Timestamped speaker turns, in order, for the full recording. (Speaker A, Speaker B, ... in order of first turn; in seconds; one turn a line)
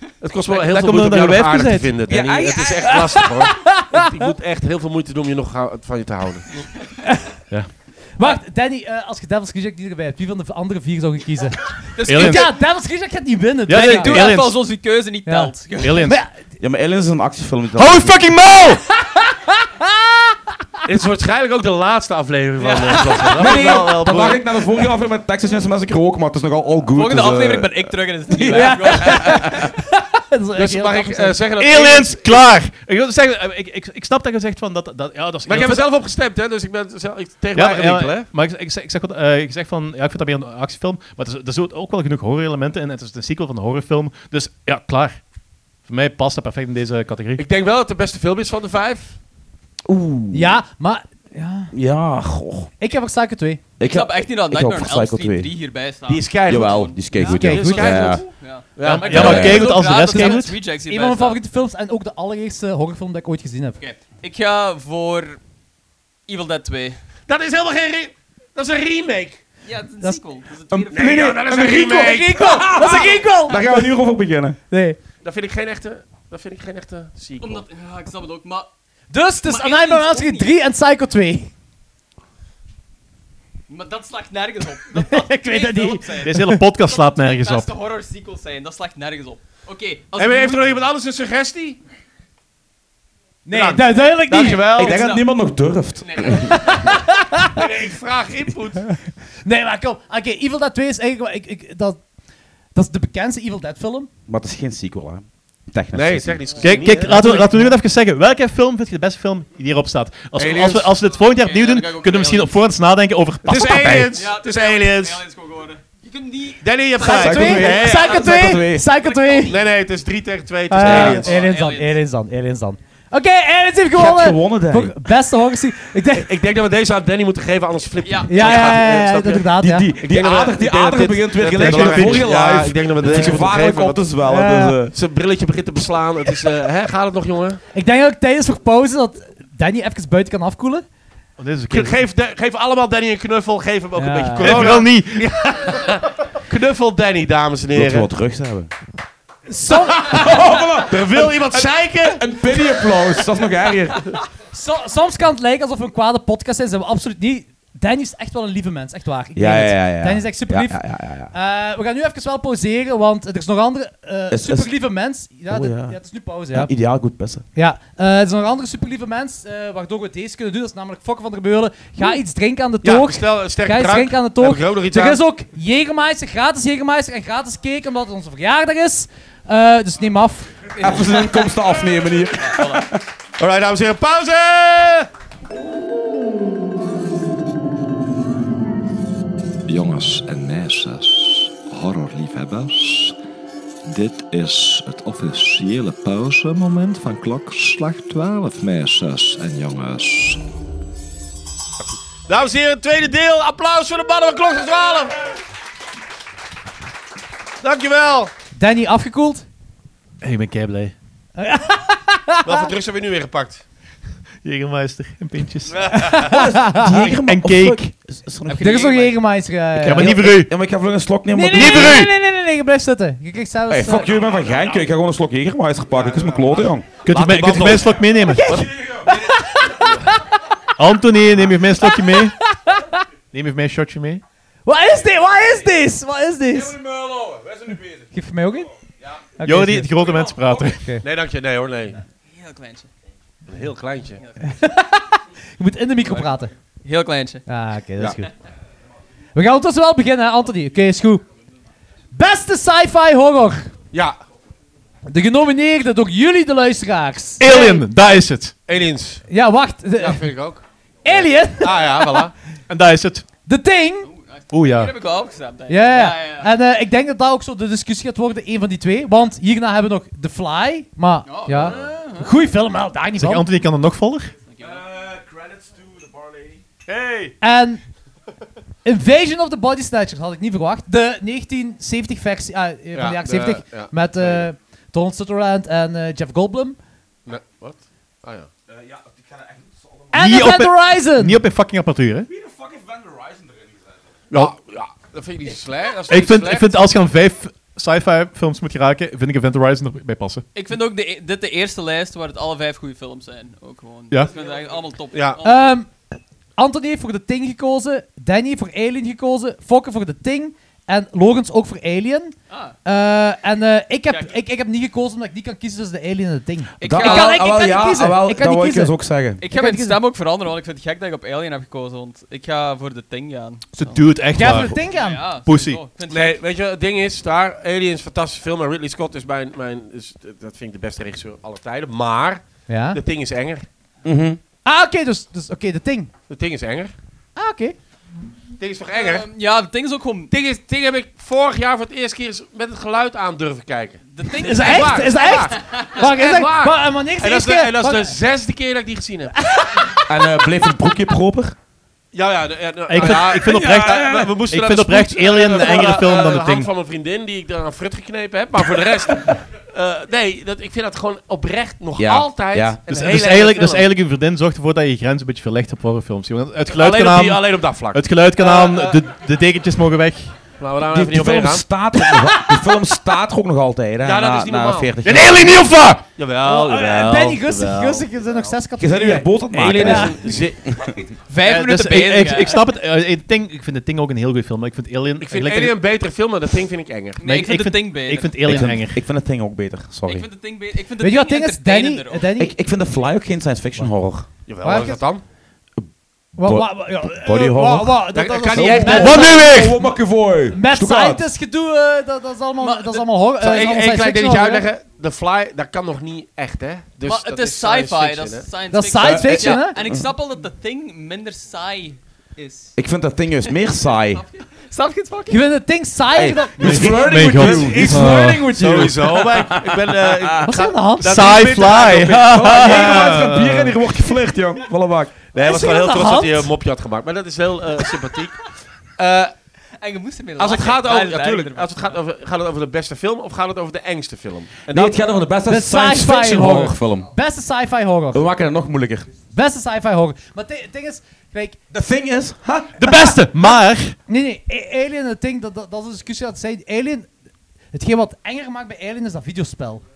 Speaker A: 0.2-6.7
Speaker B: 0.5-1.9
Speaker C: 2.1-3.0
Speaker D: 2.9-4.0
Speaker D: 7.1-7.3
Speaker D: 8.2-14.4
Speaker E: 11.9-12.6
Speaker B: 12.1-12.5
Speaker B: 13.7-14.6
Speaker E: 13.7-16.1
Speaker D: 15.3-16.3
Speaker B: 15.8-16.2
Speaker C: 16.6-18.3
Speaker B: 17.8-18.8
Speaker D: 19.0-20.3
Speaker A: 20.9-24.4
Speaker E: 22.6-23.8
Speaker C: 23.4-29.7
Speaker E: 26.9-29.6
Speaker D: 28.5-31.4
Speaker A: 30.6-32.5
Speaker B: 31.6-35.9
Speaker A: 35.5-38.3
Speaker B: 37.5-45.2
Speaker B: 45.9-47.4
Speaker A: 47.4-49.2
Speaker C: 49.9-50.6
Speaker D: 50.3-51.7
Speaker C: 51.7-52.7
Speaker D: 52.8-53.6
Speaker C: 53.8-55.5
Speaker E: 53.8-56.8
Speaker A: 56.1-59.7
Speaker C: 56.5-58.2
Speaker D: 57.2-57.9
Speaker E: 57.9-61.4
Speaker B: 58.8-60.5
Speaker C: 59.1-59.7
Speaker D: 60.1-63.8
Speaker E: 63.8-65.4
Speaker E: 66.3-67.0
Speaker A: 67.3-69.4
Speaker E: 69.7-71.3
Speaker C: 70.7-74.6
Speaker A: 70.9-72.7
Speaker D: 71.7-73.9
Speaker D: 74.7-75.0
Speaker A: 75.2-77.6
Speaker E: 77.4-78.7
Speaker D: 79.1-81.5
Speaker E: 79.4-80.5
Speaker E: 83.7-90.6
Speaker D: 84.9-86.6
Speaker B: 86.2-87.7
Speaker A: 90.2-91.8
Speaker D: 93.5-94.8
Speaker A: 93.5-95.0
Speaker E: 94.4-95.2
Speaker C: 94.8-96.6
Speaker E: 96.0-96.7
Speaker D: 96.5-97.6
Speaker A: 97.6-99.0
Speaker D: 99.4-102.0
Speaker D: 102.8-104.1
Speaker C: 104.3-106.6
Speaker A: 105.9-107.7
Speaker B: 106.6-114.1
Speaker A: 110.4-110.9
Speaker E: 111.1-112.6
Speaker A: 113.5-115.2
Speaker E: 114.1-117.4
Speaker A: 116.6-118.2
Speaker D: 117.0-119.5
Speaker C: 117.0-118.9
Speaker E: 117.9-118.3
Speaker E: 119.0-119.6
Speaker A: 119.5-121.4
Speaker D: 120.7-126.3
Speaker C: 120.8-121.2
Speaker E: 120.8-122.0
Speaker C: 123.9-124.9
Speaker A: 126.1-129.5
Speaker E: 128.0-128.7
Speaker D: 128.3-129.9
Speaker C: 129.6-134.9
Speaker A: 130.0-134.1
Speaker B: 131.6-132.2
Speaker D: 133.1-133.4
Speaker D: 134.2-134.8
Speaker A: 134.9-137.6
Speaker D: 137.7-140.8
Speaker B: 141.4-142.0
Speaker A: 141.7-148.1
Speaker D: 144.0-144.7
Speaker B: 144.4-145.3
Speaker C: 147.7-148.7
Speaker D: 149.5-150.1
Speaker C: 150.0-154.1
Speaker A: 150.0-152.2
Speaker D: 154.5-160.8
Speaker C: 159.3-161.3
Speaker D: 161.3-166.7
Speaker C: 164.3-164.7
Speaker C: 165.5-166.0
Speaker C: 166.5-167.4
Speaker D: 167.6-180.5
Speaker A: 172.8-175.2
Speaker E: 180.8-181.5
Speaker C: 180.8-183.0
Speaker E: 182.4-182.8
Speaker A: 183.4-185.1
Speaker F: 189.7-193.2
Speaker F: 193.8-200.4
Speaker A: 201.8-205.2
Speaker A: 207.6-208.3
Speaker D: 208.6-209.5
Speaker B: 210.2-210.9
Speaker D: 211.4-212.7
Speaker A: 212.4-213.6
Speaker B: 214.4-216.2
Speaker A: 215.8-216.1
Speaker D: 215.9-217.0
Speaker C: 216.2-218.8
Speaker B: 216.9-217.9
Speaker E: 218.5-219.2
Speaker D: 218.6-220.2
Speaker B: 219.8-220.5
Speaker C: 219.9-222.1
Speaker D: 221.3-224.1
Speaker B: 221.5-222.1
Speaker C: 223.7-227.9
Speaker A: 225.9-227.9
Speaker B: 227.0-228.7
Speaker D: 228.2-230.4
Speaker C: 228.7-229.1
Speaker B: 230.8-232.4
Speaker D: 231.8-233.0
Speaker B: 233.3-234.2
Speaker D: 234.7-236.8
Speaker C: 236.7-238.0
Speaker D: 238.1-238.7
Speaker D: 239.4-240.0
Speaker B: 239.4-240.9
Speaker D: 240.7-241.0
Speaker A: 241.0-242.0
Speaker E: 242.3-242.9
Speaker A: 243.5-244.2
Speaker E: 244.2-244.4
Speaker D: 244.4-246.5
Speaker E: 246.8-247.4
Speaker D: 247.5-248.3
Speaker D: 249.3-251.2
Speaker D: 252.1-253.7
Speaker A: 253.9-254.2
Speaker D: 255.1-257.8
Speaker B: 257.4-258.6
Speaker A: 257.5-257.8
Speaker A: 258.7-259.2
Speaker D: 259.3-260.2
Speaker A: 260.0-260.6
Speaker D: 261.0-262.2
Speaker A: 261.6-262.3
Speaker B: 262.7-263.2
Speaker D: 263.5-264.1
Speaker E: 264.1-266.5
Speaker B: 264.5-264.9
Speaker D: 265.7-273.5
Speaker E: 271.3-272.3
Speaker B: 273.2-274.3
Speaker E: 274.5-274.8
Speaker C: 274.9-276.5
Speaker A: 276.9-277.3
Speaker D: 277.4-277.8
Speaker D: 278.9-286.8
Speaker A: 282.9-284.5
Speaker A: 287.3-288.5
Speaker C: 288.7-290.1
Speaker D: 290.1-291.4
Speaker B: 290.2-292.3
Speaker C: 292.3-293.7
Speaker A: 294.3-296.9
Speaker B: 296.1-300.4
Speaker E: 300.6-305.7
Speaker A: 305.1-305.4
Speaker D: 305.4-305.9
Speaker D: 306.6-320.0
Speaker E: 312.5-312.8
Speaker E: 316.8-317.5
Speaker C: 316.8-319.4
Speaker E: 319.4-324.0
Speaker B: 323.7-324.8
Speaker D: 324.3-325.2
Speaker E: 324.7-326.4
Speaker B: 325.4-325.8
Speaker A: 326.1-333.7
Speaker D: 332.7-333.0
Speaker C: 334.0-334.4
Speaker D: 334.6-336.1
Speaker A: 336.3-336.9
Speaker D: 337.4-337.8
Speaker A: 338.6-339.3
Speaker E: 338.9-340.3
Speaker A: 340.3-349.3
Speaker E: 344.1-345.9
Speaker D: 344.4-348.1
Speaker D: 349.4-349.9
Speaker C: 350.1-351.6
Speaker A: 352.1-363.9
Speaker B: 352.9-356.7
Speaker C: 353.1-354.3
Speaker C: 362.0-362.8
Speaker B: 362.9-370.3
Speaker A: 366.7-369.0
Speaker A: 370.6-371.6
Speaker C: 370.9-375.8
Speaker A: 374.0-374.9
Speaker B: 375.0-376.1
Speaker A: 376.2-378.1
Speaker D: 376.4-380.1
Speaker C: 378.8-381.0
Speaker A: 379.5-380.7
Speaker E: 381.3-382.6
Speaker B: 381.4-385.8
Speaker A: 385.2-387.2
Speaker E: 387.2-388.6
Speaker B: 387.2-389.0
Speaker C: 388.4-390.3
Speaker E: 390.1-392.3
Speaker D: 391.0-392.5
Speaker C: 392.4-394.3
Speaker A: 394.5-395.2
Speaker D: 394.6-395.0
Speaker D: 396.4-399.4
Speaker C: 396.4-401.3
Speaker A: 398.1-399.5
Speaker B: 399.0-399.8
Speaker D: 400.5-404.7
Speaker E: 402.6-403.1
Speaker A: 403.4-408.5
Speaker E: 407.1-412.7
Speaker D: 408.7-409.8
Speaker C: 409.0-410.1
Speaker C: 412.8-414.2
Speaker E: 413.5-415.4
Speaker D: 415.3-417.0
Speaker C: 416.1-420.4
Speaker B: 416.6-418.5
Speaker A: 417.3-423.7
Speaker D: 420.4-421.2
Speaker B: 421.0-423.6
Speaker C: 422.2-425.1
Speaker A: 425.3-428.4
Speaker D: 425.4-426.5
Speaker A: 429.0-429.3
Speaker E: 429.8-432.0
Speaker A: 430.4-435.0
Speaker C: 434.7-437.1
Speaker D: 435.5-438.2
Speaker A: 436.4-436.6
Speaker C: 438.1-439.1
Speaker D: 439.3-441.6
Speaker C: 441.7-442.8
Speaker B: 442.8-444.0
Speaker D: 442.9-443.4
Speaker D: 444.1-447.1
Speaker D: 447.7-449.8